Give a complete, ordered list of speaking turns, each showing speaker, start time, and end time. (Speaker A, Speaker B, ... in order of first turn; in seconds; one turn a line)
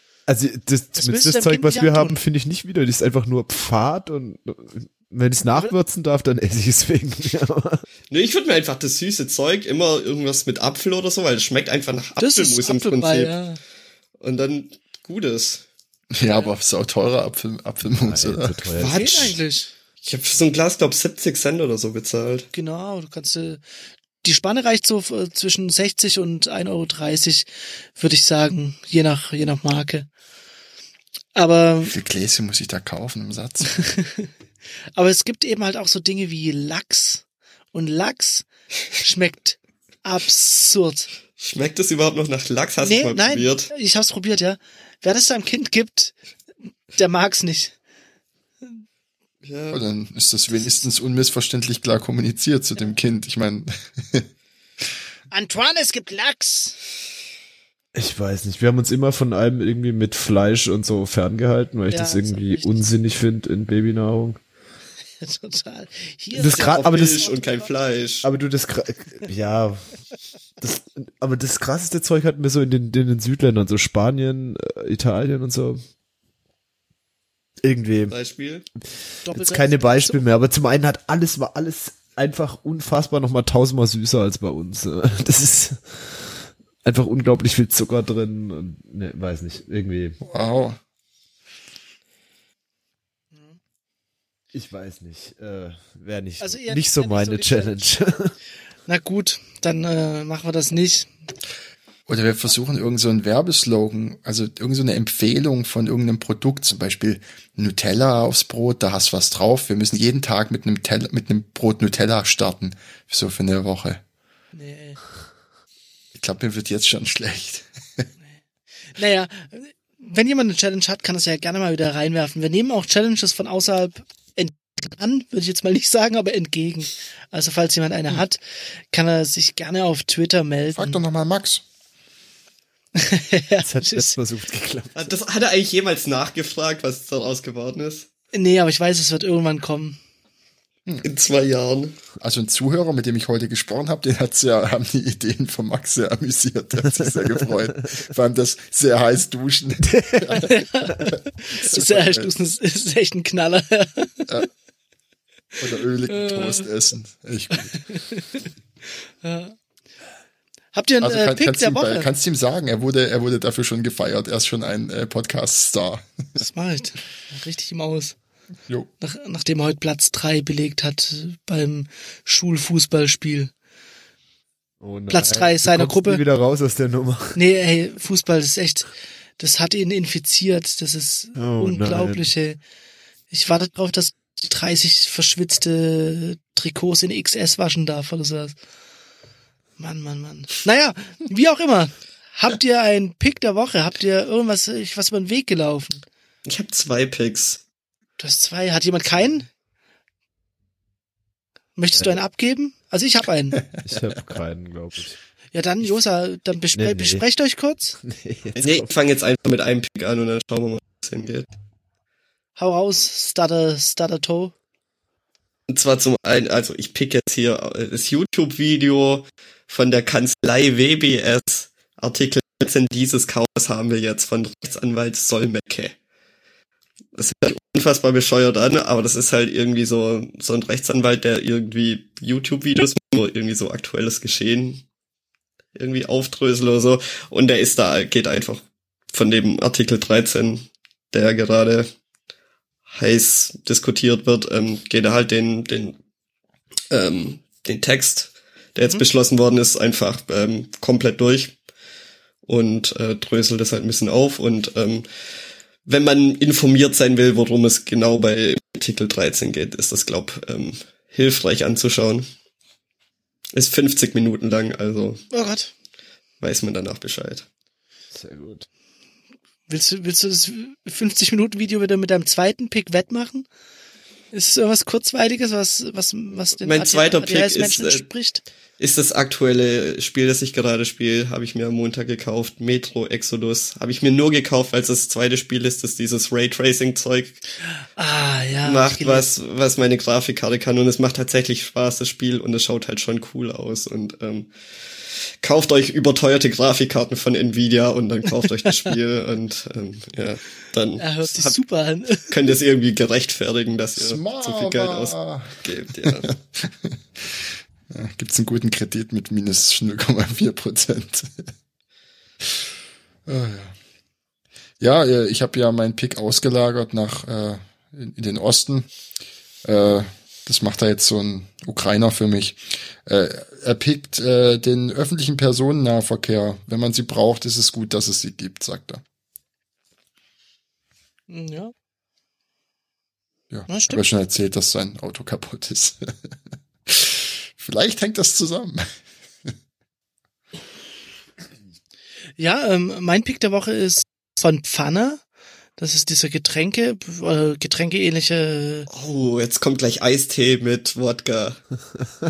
Speaker A: 0.3-7.8
Speaker B: 1.0-2.1
Speaker C: 8.1-13.3
Speaker B: 12.2-13.6
Speaker C: 14.2-15.6
Speaker D: 16.1-18.7
Speaker A: 18.0-19.4
Speaker B: 18.8-19.7
Speaker C: 18.8-19.4
Speaker C: 20.0-22.5
Speaker B: 22.5-23.6
Speaker B: 24.2-30.1
Speaker B: 31.4-31.9
Speaker D: 31.9-33.8
Speaker B: 33.7-34.3
Speaker B: 35.0-41.1
Speaker C: 41.4-43.7
Speaker B: 42.8-46.2
Speaker B: 47.0-47.8
Speaker C: 49.4-49.8
Speaker D: 49.7-54.3
Speaker B: 55.3-56.8
Speaker A: 58.0-64.4
Speaker B: 61.9-62.9
Speaker B: 65.2-67.7
Speaker A: 66.4-67.3
Speaker C: 66.4-68.3
Speaker A: 68.2-69.9
Speaker A: 70.6-75.8
Speaker A: 77.6-78.2
Speaker C: 78.1-78.7
Speaker B: 79.3-80.2
Speaker A: 79.3-90.2
Speaker D: 90.2-90.8
Speaker A: 94.5-98.3
Speaker B: 96.4-97.9
Speaker B: 98.9-101.1
Speaker D: 102.1-114.0
Speaker B: 114.5-115.0
Speaker D: 116.2-118.0
Speaker B: 118.9-128.4
Speaker B: 128.9-131.0
Speaker D: 130.8-131.6
Speaker B: 132.9-134.2
Speaker A: 133.6-135.1
Speaker C: 134.9-138.1
Speaker B: 138.3-140.0
Speaker C: 141.0-142.0
Speaker D: 142.2-152.3
Speaker A: 149.8-150.4
Speaker B: 150.3-154.3
Speaker D: 155.6-157.7
Speaker B: 156.1-156.7
Speaker B: 157.6-158.5
Speaker B: 159.2-159.6
Speaker B: 160.7-162.1
Speaker D: 161.0-166.4
Speaker B: 166.4-168.2
Speaker B: 169.0-173.5
Speaker A: 174.8-177.4
Speaker B: 175.1-176.2
Speaker B: 177.3-182.6
Speaker A: 181.4-182.3
Speaker B: 183.3-188.6
Speaker B: 189.8-196.0
Speaker C: 196.5-197.6
Speaker B: 198.2-199.5
Speaker B: 201.8-203.6
Speaker A: 203.8-205.2
Speaker B: 205.5-208.0
Speaker A: 206.7-207.2
Speaker A: 208.0-208.9
Speaker C: 208.6-211.5
Speaker B: 212.6-214.5
Speaker C: 215.7-225.9
Speaker C: 227.2-234.8
Speaker C: 235.8-241.9
Speaker C: 242.9-246.0
Speaker C: 246.9-251.6
Speaker C: 252.5-255.1
Speaker C: 255.9-262.3
Speaker C: 263.5-265.2
Speaker B: 265.3-265.7
Speaker C: 266.4-267.4
Speaker A: 268.1-268.7
Speaker B: 269.7-273.5
Speaker B: 274.3-278.4
Speaker C: 276.6-278.1
Speaker C: 278.8-287.4
Speaker B: 287.7-289.3
Speaker C: 288.6-301.6
Speaker B: 301.0-302.4
Speaker C: 302.3-306.3
Speaker D: 304.0-311.5
Speaker D: 313.3-313.7
Speaker D: 314.8-318.9
Speaker D: 319.6-329.0
Speaker B: 331.3-331.7
Speaker D: 333.5-336.1
Speaker B: 333.7-334.0
Speaker D: 336.9-338.9
Speaker B: 342.4-345.2
Speaker B: 345.8-348.9
Speaker C: 348.9-351.6